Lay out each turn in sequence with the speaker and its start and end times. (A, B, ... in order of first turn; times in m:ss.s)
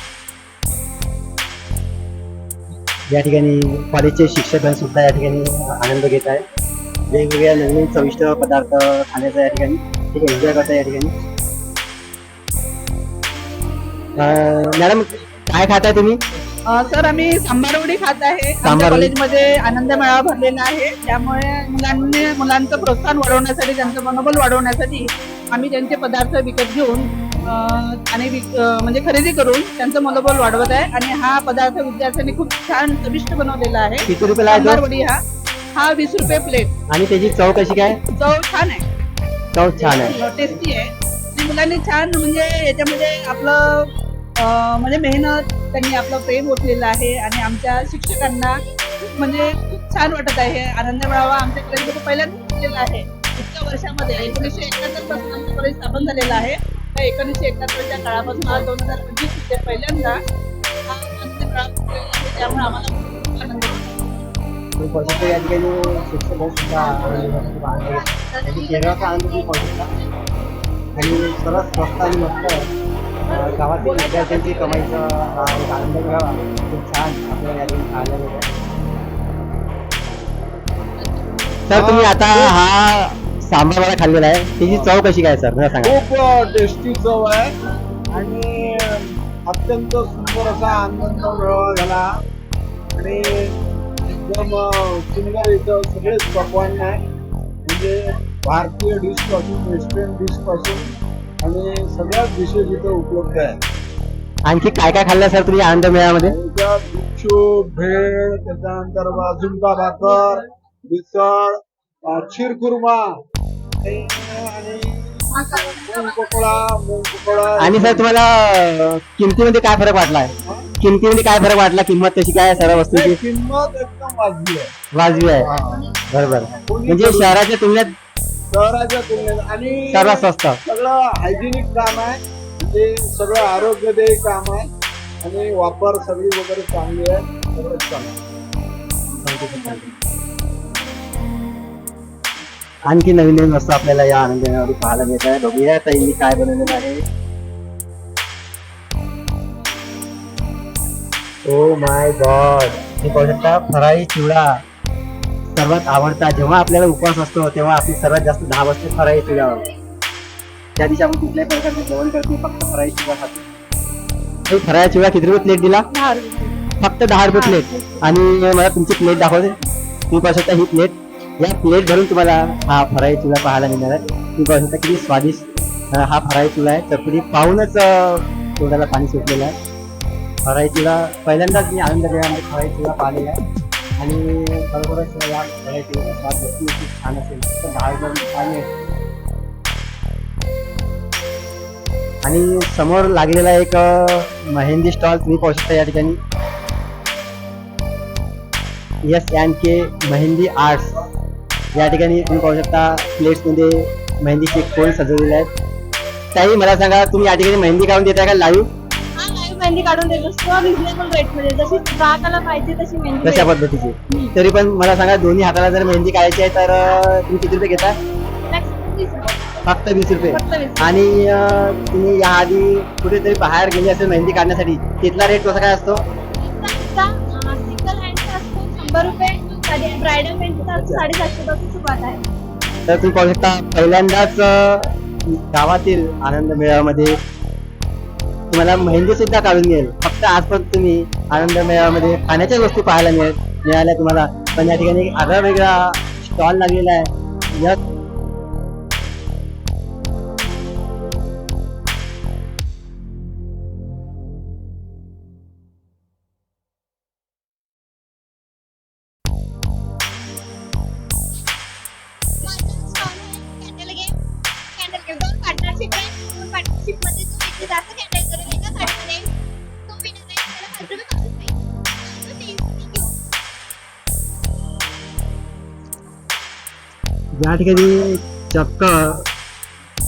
0:03.1-0:06.4 A
0:07.1-0:11.1 A
0:14.2-0:16.2 A
0:16.7-0:35.2 B
0:18.6-0:19.1 A
0:34.1-0:34.8 A
0:35.8-0:36.7 B
0:36.9-0:38.0 A
0:38.1-0:38.8 B
0:39.6-0:40.2 A
0:39.8-1:00.2 B
1:00.9-1:04.1 B
1:04.8-1:09.9 A
1:11.0-1:12.7 A
1:13.3-1:18.5 A
1:21.7-1:26.0 A
1:21.8-1:22.5 C
1:25.8-1:27.5 C
1:28.1-1:32.1 C
1:33.0-1:37.0 C
1:37.7-1:40.9 C
1:41.4-1:43.6 C
1:44.5-1:46.4 A
1:46.2-1:51.6 C
1:52.1-1:53.1 C
1:53.8-1:55.2 C
1:55.8-1:58.0 C
1:57.6-2:03.2 A
2:02.9-2:04.7 C
2:05.0-2:05.5 A
2:05.5-2:05.8 C
2:06.1-2:08.0 A
2:06.7-2:07.3 C
2:08.5-2:10.0 C
2:09.9-2:10.6 A
2:10.7-2:14.6 C
2:15.2-2:18.1 C
2:19.2-2:19.9 A
2:22.9-2:27.0 A
2:31.5-2:34.6 A
2:35.5-2:39.6 A
2:40.8-2:43.4 A
2:44.5-2:45.9 A
2:46.0-2:46.6 B
2:46.8-2:49.5 A
2:47.3-2:47.6 B
2:50.1-2:59.5 A
3:00.5-3:03.4 A
3:04.0-3:08.7 A
3:12.2-3:16.2 A
3:19.1-3:21.0 A
3:21.7-3:25.5 A
3:26.3-3:28.7 A
3:29.2-3:33.5 D
3:33.2-3:38.0 A
3:34.1-3:34.3 D
3:38.5-3:39.3 D
3:39.7-3:46.0 A
3:40.3-3:40.8 D
3:46.4-3:52.2 D
3:50.8-3:51.0 A
3:52.9-3:57.2 A
3:58.5-4:07.8 A
4:22.4-4:24.1 D
4:24.8-4:29.3 D
4:29.9-4:33.1 D
4:37.4-4:39.3 A